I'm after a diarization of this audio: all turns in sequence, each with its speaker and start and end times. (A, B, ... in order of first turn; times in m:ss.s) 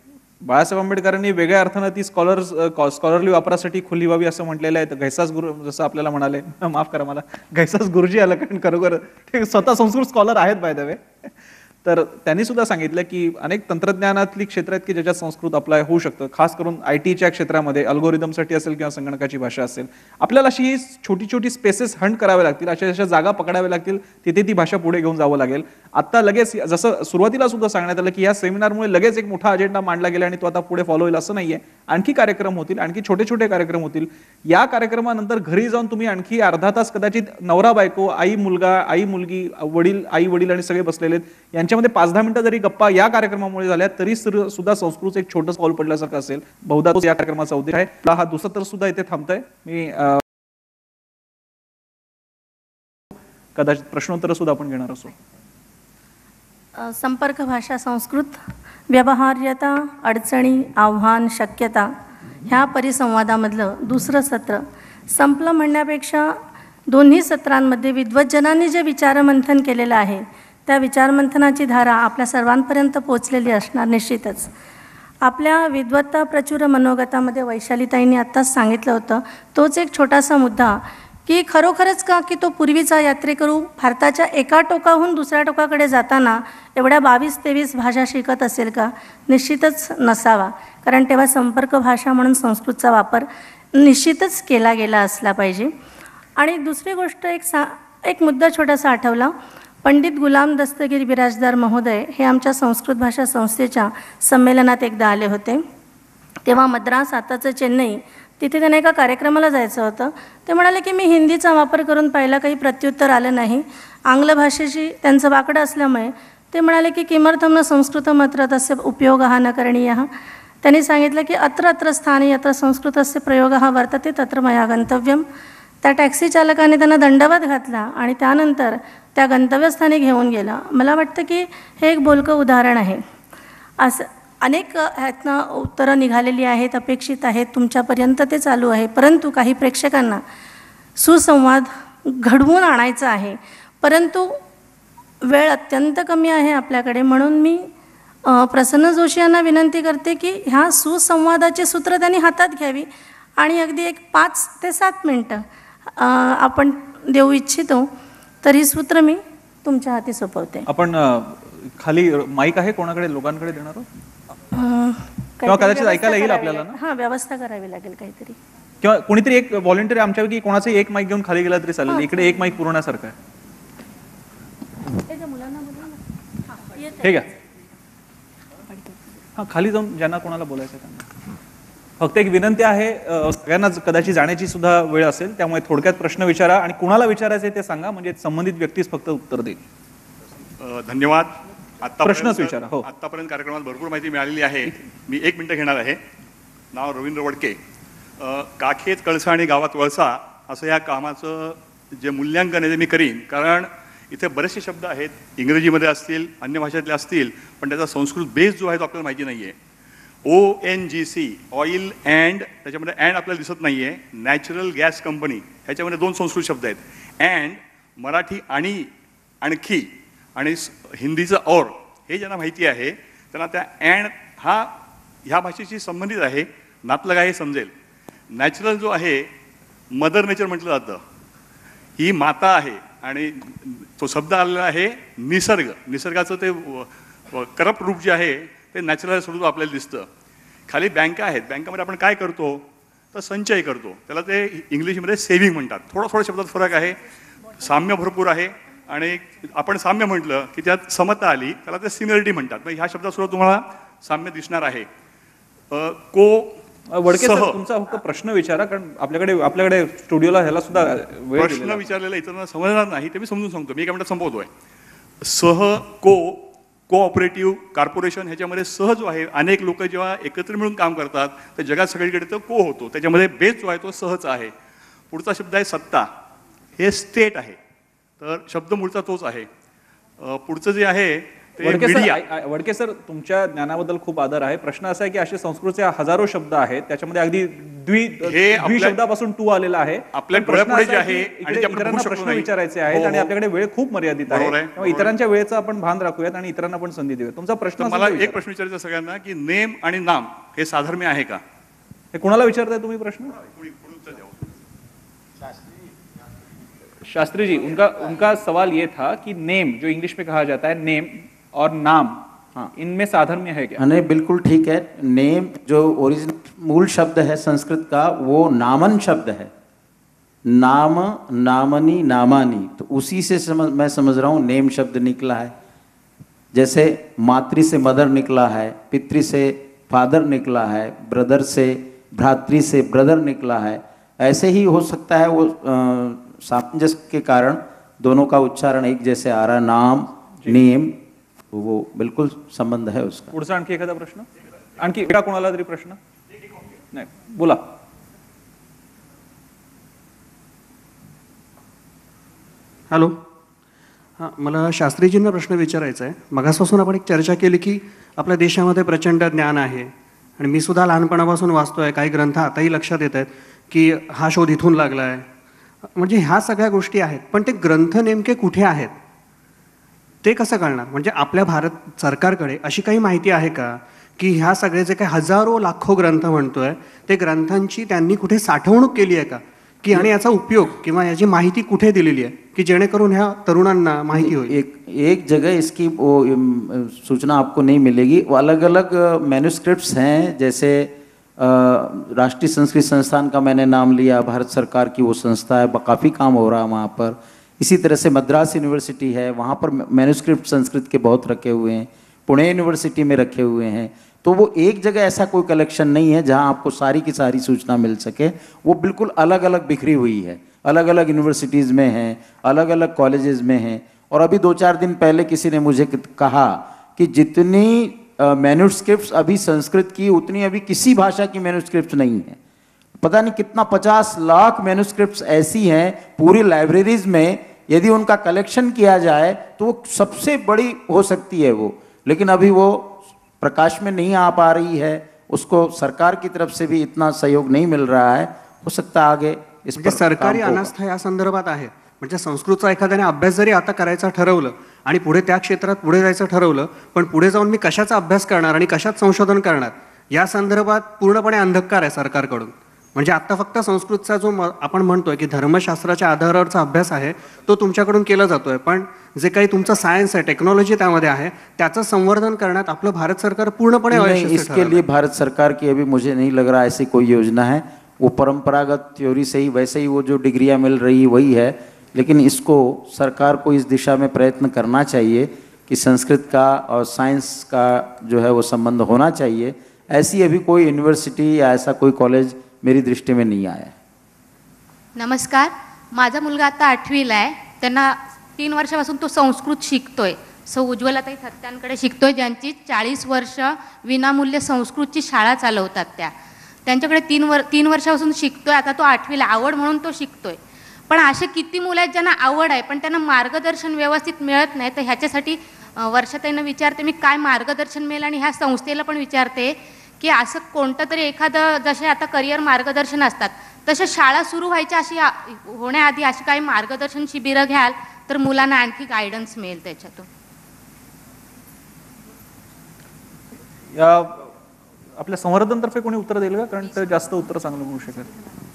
0:00.4-0:11.3 A
0:11.8-0:50.2 A
0:53.6-0:55.1 A
0:56.8-1:01.9 B
1:02.5-1:06.4 B
1:06.9-1:14.5 B
1:15.2-1:35.7 B
1:36.4-1:39.3 B
1:39.8-1:45.6 B
1:46.4-2:00.1 B
2:00.6-2:05.2 B
2:05.8-2:13.0 B
2:13.8-2:20.2 B
2:21.0-2:24.4 B
2:25.2-2:27.7 B
2:28.3-2:35.4 B
2:36.0-2:37.9 B
2:38.4-2:40.7 B
2:40.7-2:43.9 A
2:44.5-2:48.4 B
2:45.5-2:46.8 A
2:48.8-2:53.2 A
2:51.9-2:52.4 B
2:55.1-2:55.9 B
2:57.0-2:57.3 A
2:59.4-3:01.1 A
3:02.0-3:09.6 A
3:10.6-3:16.0 C
3:12.0-3:12.9 A
3:16.7-3:17.6 C
3:18.2-3:29.6 C
3:30.3-3:38.9 C
3:39.4-3:44.7 C
3:45.3-3:47.7 C
3:48.3-3:49.3 C
3:49.9-3:51.0 C
3:52.0-4:00.1 C
4:00.7-4:07.0 C
4:07.6-4:14.9 C
4:15.7-4:17.6 C
4:16.9-4:21.9 A
4:21.4-4:24.5 C
4:25.2-4:34.5 C
4:35.1-4:36.1 C
4:36.8-4:37.6 C
4:38.2-4:39.5 C
4:40.2-4:42.2 C
4:41.6-4:58.4 A
4:48.2-4:49.0 C
4:50.1-4:53.3 C
4:54.3-4:55.2 C
4:57.8-5:01.4 C
5:02.1-5:03.3 A
5:03.6-5:04.5 C
5:07.1-5:12.2 A
5:12.8-5:13.8 A
5:13.8-5:19.5 D
5:20.5-5:25.5 D
5:26.5-5:41.0 D
5:41.5-5:43.3 D
5:43.3-5:44.3 A
5:44.8-5:46.0 A
5:46.9-5:47.6 A
5:52.9-5:53.2 E
5:54.2-6:05.3 E
6:06.0-6:08.9 E
6:10.2-6:24.6 E
6:24.1-7:02.4 D
7:03.0-7:20.7 D
7:19.8-7:44.8 E
7:43.9-8:03.7 D
8:05.0-8:16.1 F
8:16.7-8:20.4 F
8:20.9-8:40.0 F
8:43.7-8:44.3 A
8:45.0-8:48.1 A